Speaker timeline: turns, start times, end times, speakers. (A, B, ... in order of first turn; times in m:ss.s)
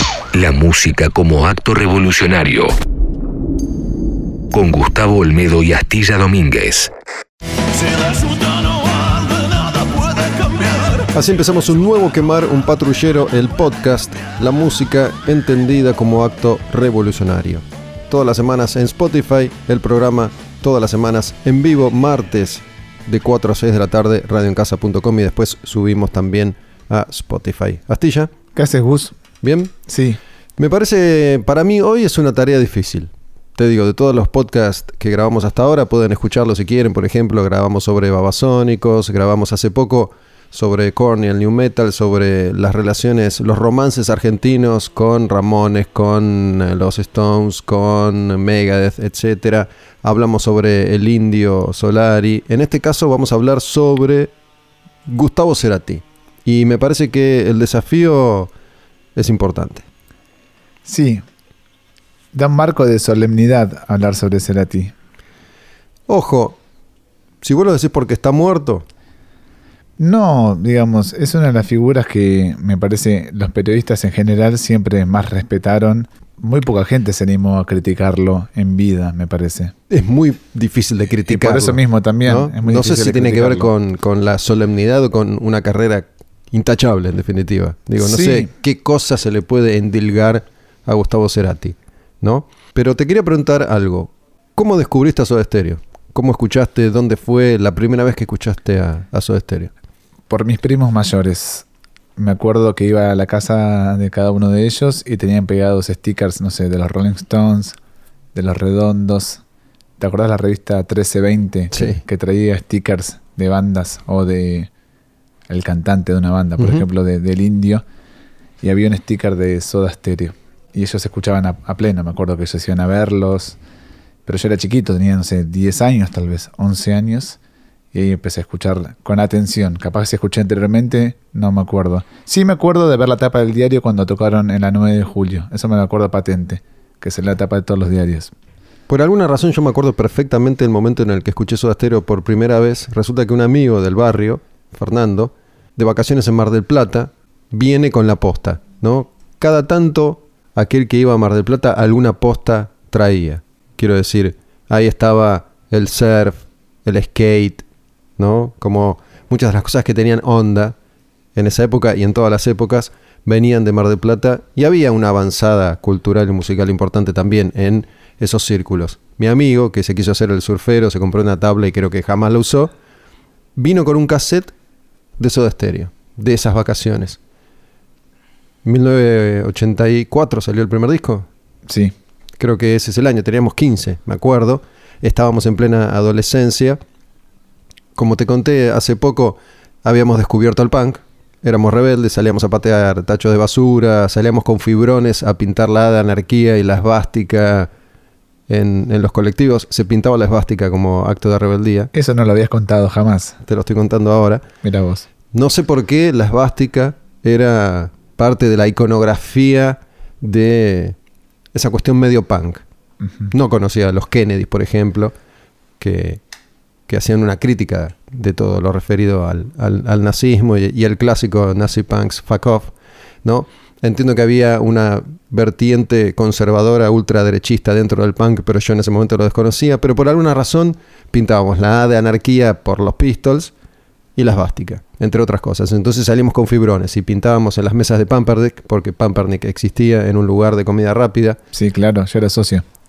0:00.3-0:02.7 A
0:04.5-0:06.9 A
0:11.1-0:28.3 B
0:28.5-0:29.2 C
0:29.4-0:29.7 B
0:29.9-0:30.2 C
0:30.6-0:54.3 B
0:55.1-0:58.5 B
0:59.2-0:59.8 B
1:00.8-1:01.2 C
1:02.3-1:04.9 C
1:06.1-1:06.6 B
1:07.4-1:08.8 B
1:10.0-1:19.7 C
1:19.9-1:39.7 B
1:21.2-1:23.7 C
1:28.0-1:28.5 C
1:40.3-1:41.6 C
1:42.2-1:47.8 C
1:48.3-1:49.4 C
1:50.0-1:54.7 C
1:51.7-1:52.0 B
1:55.5-1:57.8 C
1:56.6-1:56.8 B
1:58.6-2:03.6 C
2:04.2-2:07.4 C
2:07.9-2:18.3 C
2:18.9-2:37.6 B
2:38.2-2:40.7 B
2:41.4-2:52.7 B
2:53.6-2:54.5 B
2:55.2-2:57.2 B
2:58.6-3:01.3 B
3:01.7-3:01.9 C
3:02.4-3:06.8 B
3:07.9-3:17.7 B
3:18.5-3:21.9 B
3:21.9-3:23.4 C
3:23.4-3:24.4 B
3:24.6-3:25.0 C
3:25.3-3:31.0 B
3:31.5-3:32.6 B
3:33.3-3:35.1 B
3:35.8-3:36.2 B
3:36.9-3:42.7 B
3:43.2-3:53.5 B
3:54.2-4:01.4 B
4:01.5-4:02.6 C